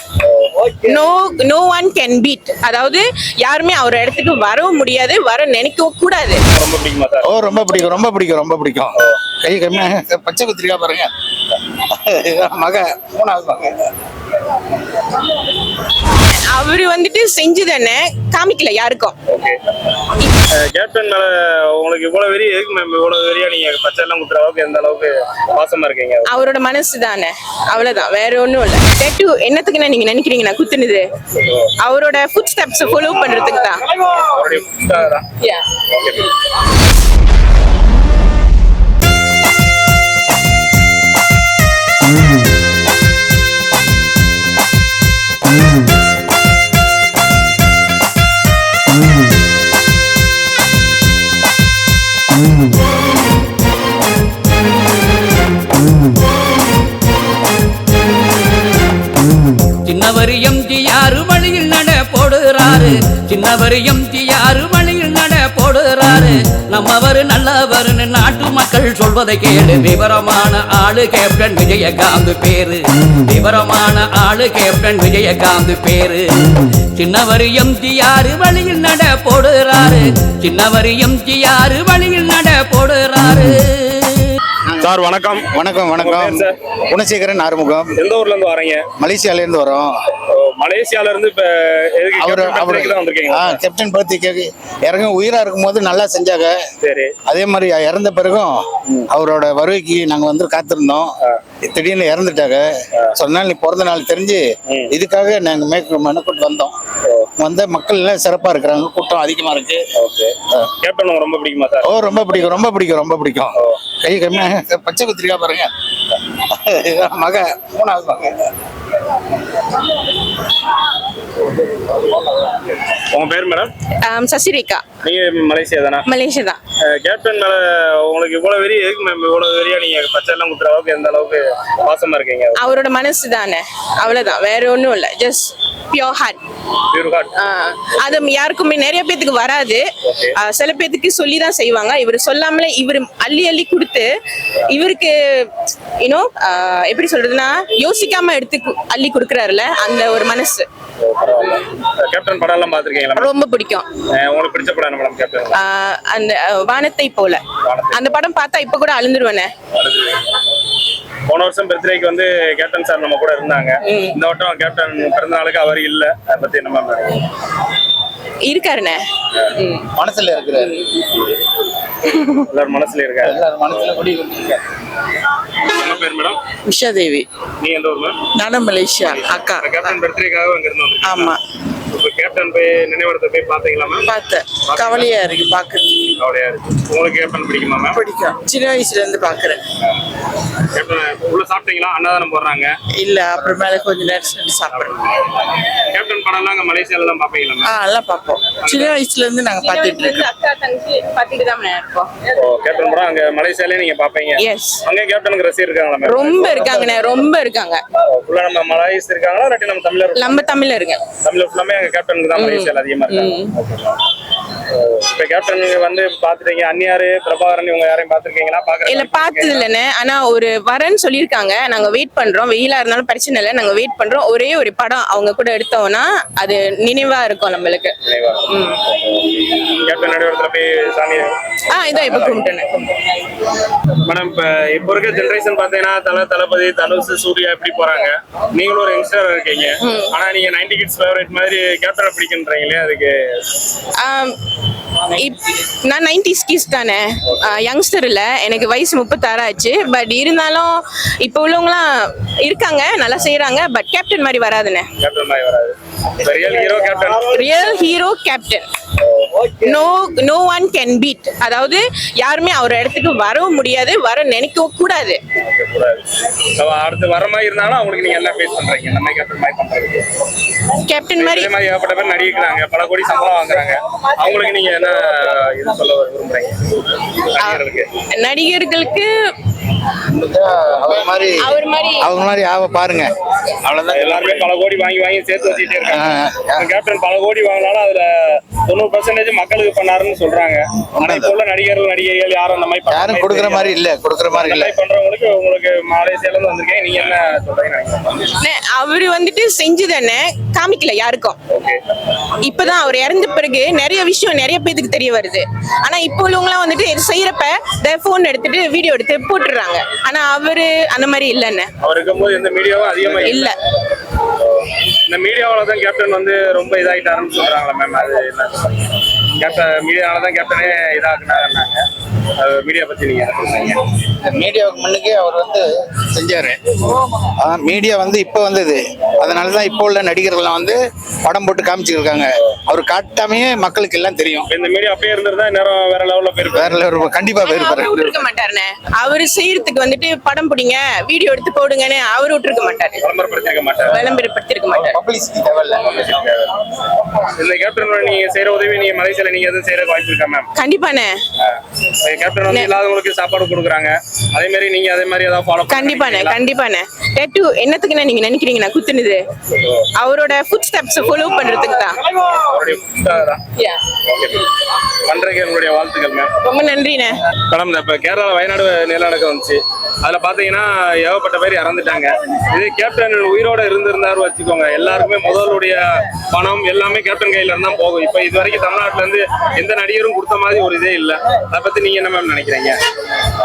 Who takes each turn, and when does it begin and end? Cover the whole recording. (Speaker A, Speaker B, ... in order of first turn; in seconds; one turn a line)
Speaker A: 0.3-0.8
Speaker B: 0.9-6.4
Speaker A: 6.5-7.3
Speaker C: 7.2-11.1
Speaker C: 11.7-13.9
Speaker B: 16.5-19.2
Speaker A: 19.3-26.3
Speaker B: 26.3-31.0
Speaker A: 31.3-31.7
Speaker B: 31.8-33.8
Speaker A: 34.1-36.3
Speaker D: 59.8-84.3
Speaker C: 84.7-87.9
Speaker A: 84.8-86.5
Speaker A: 88.0-88.8
Speaker C: 89.0-89.9
Speaker A: 90.3-93.6
Speaker C: 92.2-96.6
Speaker A: 96.8-97.1
Speaker C: 97.3-101.1
Speaker C: 101.7-106.7
Speaker A: 104.7-104.9
Speaker C: 107.4-109.8
Speaker A: 110.0-111.9
Speaker C: 111.8-115.7
Speaker C: 116.3-118.5
Speaker A: 122.1-123.7
Speaker B: 124.0-124.9
Speaker A: 125.0-126.1
Speaker B: 126.1-126.6
Speaker A: 126.8-132.6
Speaker B: 132.6-136.4
Speaker A: 136.9-137.3
Speaker B: 137.3-144.1
Speaker A: 140.1-140.3
Speaker B: 144.7-150.7
Speaker A: 151.0-153.3
Speaker B: 153.2-153.9
Speaker A: 154.0-155.6
Speaker B: 155.5-159.5
Speaker A: 157.6-158.2
Speaker A: 159.7-160.5
Speaker A: 161.3-167.3
Speaker B: 163.8-164.2
Speaker B: 168.4-169.0
Speaker B: 169.6-169.8
Speaker C: 169.9-170.8
Speaker A: 172.1-173.4
Speaker C: 173.2-174.6
Speaker A: 175.7-176.5
Speaker E: 176.7-177.2
Speaker A: 177.6-178.2
Speaker E: 178.4-179.9
Speaker A: 179.0-181.3
Speaker E: 181.1-181.4
Speaker A: 181.9-184.1
Speaker E: 184.0-186.0
Speaker A: 184.6-185.2
Speaker A: 186.2-188.0
Speaker E: 187.9-189.6
Speaker A: 190.7-192.7
Speaker E: 193.0-194.9
Speaker A: 194.7-197.7
Speaker E: 197.7-200.1
Speaker A: 198.6-199.0
Speaker B: 199.6-202.1
Speaker A: 202.3-206.8
Speaker B: 204.4-204.8
Speaker B: 206.0-207.8
Speaker A: 208.1-214.0
Speaker B: 210.2-211.0
Speaker B: 212.3-213.5
Speaker A: 214.7-219.7
Speaker B: 218.8-227.9
Speaker A: 228.0-232.4
Speaker B: 228.5-228.8
Speaker B: 231.7-232.8
Speaker A: 234.0-243.4
Speaker B: 239.8-240.1
Speaker B: 244.0-244.3
Speaker B: 245.1-254.9
Speaker A: 255.0-257.4
Speaker B: 257.3-258.6
Speaker A: 259.0-259.8
Speaker B: 259.7-265.2
Speaker A: 265.3-266.0
Speaker A: 266.6-270.1
Speaker B: 270.8-271.5
Speaker A: 271.1-278.0
Speaker B: 277.4-279.1
Speaker C: 280.1-284.5
Speaker B: 281.4-282.1
Speaker A: 283.9-293.7
Speaker C: 285.8-286.7
Speaker C: 291.0-291.3
Speaker C: 292.9-294.7
Speaker A: 294.3-298.3
Speaker B: 298.4-301.4
Speaker A: 301.5-301.8
Speaker B: 302.4-311.7
Speaker A: 311.8-313.5
Speaker B: 313.2-313.5
Speaker A: 314.3-321.8
Speaker A: 322.4-323.9
Speaker C: 324.2-334.5
Speaker A: 334.5-336.8
Speaker C: 336.5-338.1
Speaker B: 337.4-343.0
Speaker A: 343.0-344.1
Speaker B: 343.9-344.9
Speaker C: 344.8-345.9
Speaker A: 345.8-346.6
Speaker A: 347.2-350.5
Speaker B: 350.6-351.1
Speaker A: 351.4-356.4
Speaker B: 355.7-359.2
Speaker A: 359.5-359.9
Speaker B: 360.0-362.0
Speaker A: 362.1-366.3
Speaker B: 366.4-367.1
Speaker A: 367.5-382.8